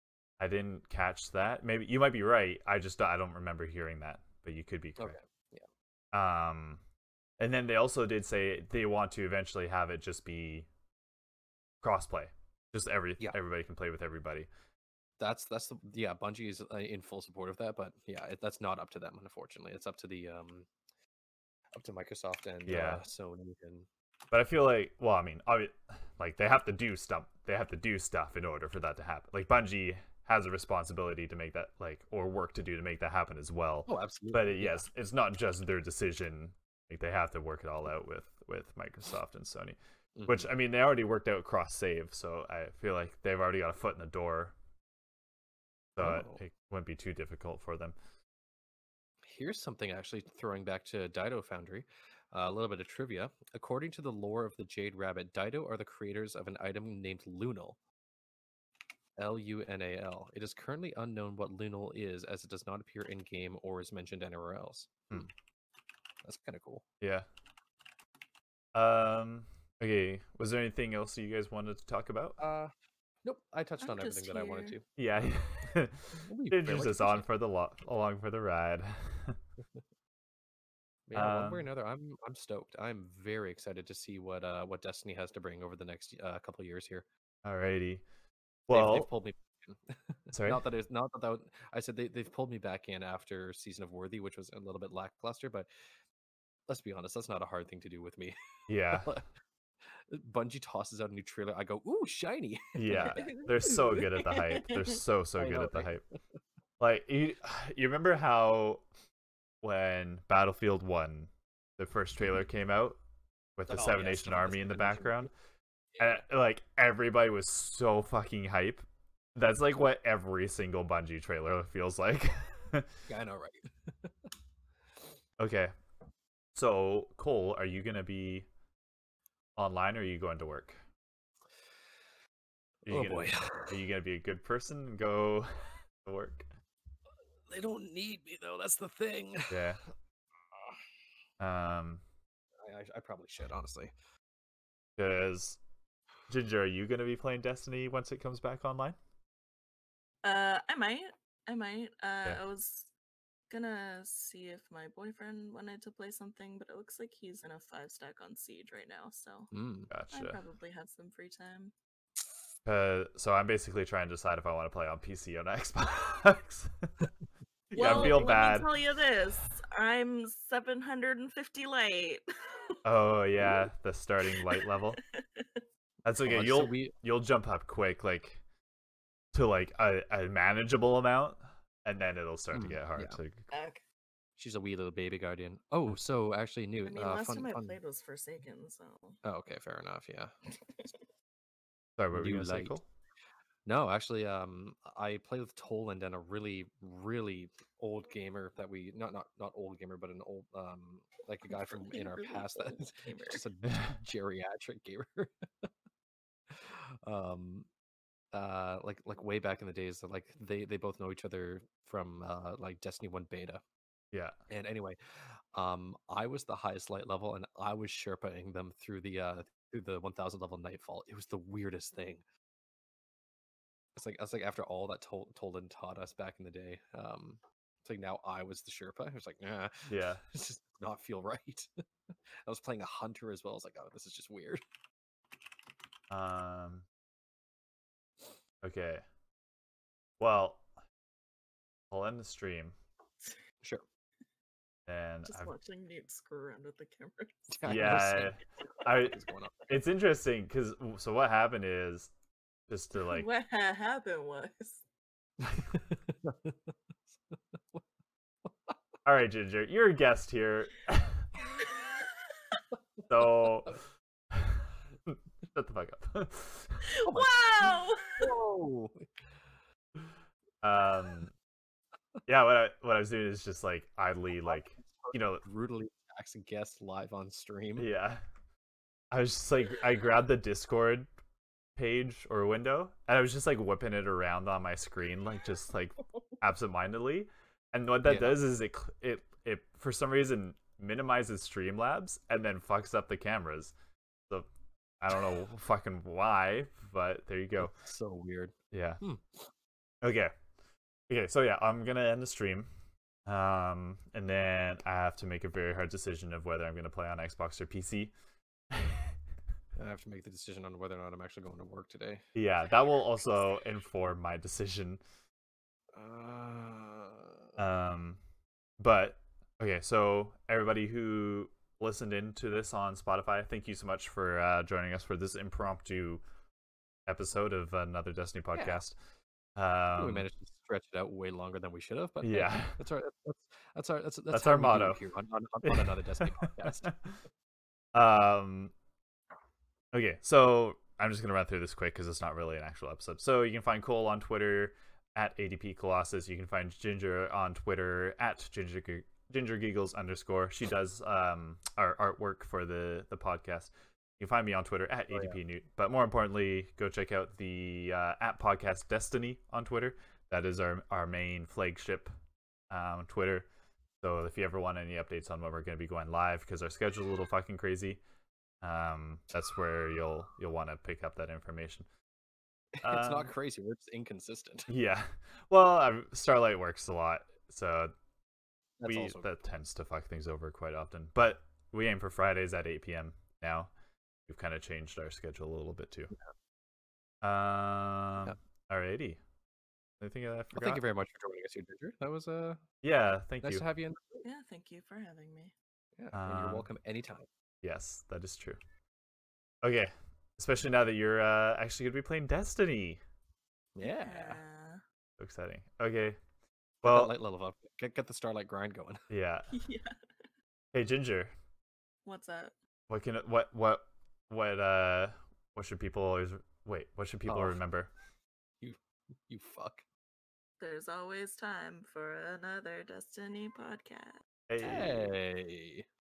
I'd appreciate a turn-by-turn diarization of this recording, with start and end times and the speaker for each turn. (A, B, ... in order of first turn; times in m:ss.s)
0:00.4-0:05.2 A
0:05.0-0:05.7 B
0:06.1-0:06.8 A
0:07.4-0:10.7 A
0:11.8-0:14.5 A
0:15.2-0:20.7 B
0:21.8-0:23.9 B
0:22.6-0:23.0 A
0:24.3-0:44.6 A
0:33.9-0:34.8 B
0:40.2-0:40.5 B
0:46.0-0:48.0 A
0:46.0-0:46.4 B
0:49.2-0:57.8 B
0:59.2-1:05.3 B
1:06.2-1:06.8 B
1:07.0-1:07.3 A
1:08.7-1:12.4 A
1:12.4-1:12.7 B
1:13.2-1:14.8 B
1:13.8-1:14.8 C
1:15.0-1:19.4 A
1:16.1-1:17.3 B
1:21.1-1:27.1 B
1:21.1-1:21.7 A
1:27.4-1:28.1 A
1:28.7-1:29.1 A
1:28.7-1:35.7 B
1:30.3-1:30.6 A
1:36.7-1:38.4 B
1:38.7-1:39.1 A
1:38.9-1:39.3 B
1:40.0-1:44.0 B
1:42.8-1:46.0 A
1:43.0-1:45.0 C
1:45.4-1:45.9 B
1:46.8-1:48.8 A
1:49.6-1:53.0 A
1:53.6-1:55.3 A
1:53.7-1:55.3 B
1:56.0-1:58.8 A
1:59.4-2:02.9 A
2:03.1-2:04.3 B
2:05.4-2:05.7 A
2:06.6-2:08.5 A
2:09.6-2:10.8 A
2:12.8-2:16.5 A
2:12.9-2:13.8 B
2:17.5-2:19.6 B
2:19.5-2:19.8 A
2:21.4-2:22.0 A
2:22.6-2:23.9 B
2:25.0-2:25.6 A
2:26.3-2:29.0 A
2:30.2-2:32.9 C
2:33.5-2:39.5 C
2:39.5-2:39.9 B
2:39.9-2:40.4 A
2:40.1-2:41.7 C
2:42.7-2:46.7 A
2:47.7-2:48.8 A
2:47.7-2:52.8 C
2:47.8-2:48.2 B
2:52.8-2:55.0 A
2:54.3-2:55.6 C
2:56.0-2:58.4 A
2:56.2-2:56.9 B
2:59.3-3:03.5 A
3:02.5-3:03.2 B
3:03.5-3:03.8 C
3:04.4-3:07.8 B
3:06.8-3:09.2 C
3:09.2-3:10.3 B
3:12.0-3:12.9 A
3:12.1-3:12.8 B
3:13.6-3:25.7 B
3:21.5-3:23.4 C
3:26.5-3:27.7 B
3:28.3-3:33.6 B
3:34.1-3:34.4 A
3:34.5-3:42.2 B
3:44.0-3:51.7 B
3:49.9-3:50.2 A
3:52.4-3:54.6 B
3:56.1-3:56.9 A
3:58.6-3:59.0 A
4:00.2-4:00.6 A
4:01.9-4:02.8 A
4:04.9-4:05.5 A
4:05.3-4:07.6 C
4:07.5-4:08.4 B
4:07.6-4:12.1 A
4:09.1-4:09.6 B
4:12.7-4:13.3 A
4:13.0-4:14.8 C
4:15.4-4:16.7 B
4:17.3-4:17.8 B
4:18.4-4:18.8 B
4:19.0-4:21.3 A
4:23.1-4:23.8 A
4:24.3-4:26.8 A
4:26.8-4:28.3 C
4:27.0-4:29.3 B
4:30.6-4:31.3 A
4:32.3-4:35.4 A
4:34.4-4:37.9 B
4:37.8-4:38.2 A
4:39.1-4:41.1 A
4:41.8-4:53.7 A
4:48.0-4:48.4 B
4:55.0-4:57.8 A
4:57.6-4:59.5 B
4:58.7-4:59.0 A
5:00.0-5:00.4 A
5:01.1-5:02.7 A
5:03.3-5:08.1 A
5:08.7-5:09.2 A
5:09.8-5:12.2 B
5:12.4-5:15.0 A
5:15.9-5:17.4 B
5:17.6-5:18.2 A
5:18.8-5:26.2 A
5:27.1-5:29.0 A
5:28.5-5:28.8 B
5:29.6-5:30.3 A
5:30.0-5:37.0 B
5:32.2-5:32.8 A
5:34.3-5:35.0 A
5:35.6-5:37.0 A
5:37.9-5:38.7 A
5:39.9-6:02.1 A
5:55.1-5:55.4 B
6:02.7-6:03.5 A
6:04.0-6:08.0 A
6:08.6-6:11.9 A
6:12.8-6:14.7 B
6:12.8-6:13.3 A
6:14.7-6:18.0 A
6:18.8-6:19.3 B
6:18.8-6:23.7 A
6:24.3-6:26.1 A
6:27.2-6:29.2 A
6:30.0-6:30.8 A
6:30.5-6:32.6 B
6:32.8-6:33.7 A
6:33.4-6:34.2 B
6:34.2-6:35.5 C
6:36.0-6:37.3 B
6:36.1-6:36.7 A
6:37.6-6:38.6 A
6:39.6-6:43.0 A
6:43.8-6:44.4 B
6:43.8-6:44.8 C
6:45.2-6:46.2 A
6:46.8-6:47.2 A
6:46.8-6:49.0 B
6:49.1-6:49.5 A
6:49.5-6:50.0 C
6:50.7-6:51.3 A
6:52.0-6:52.5 C
6:52.9-6:57.9 A
6:57.3-6:57.6 B
6:58.6-6:59.8 B
7:00.6-7:04.2 C
7:04.5-7:05.2 A
7:04.6-7:05.9 B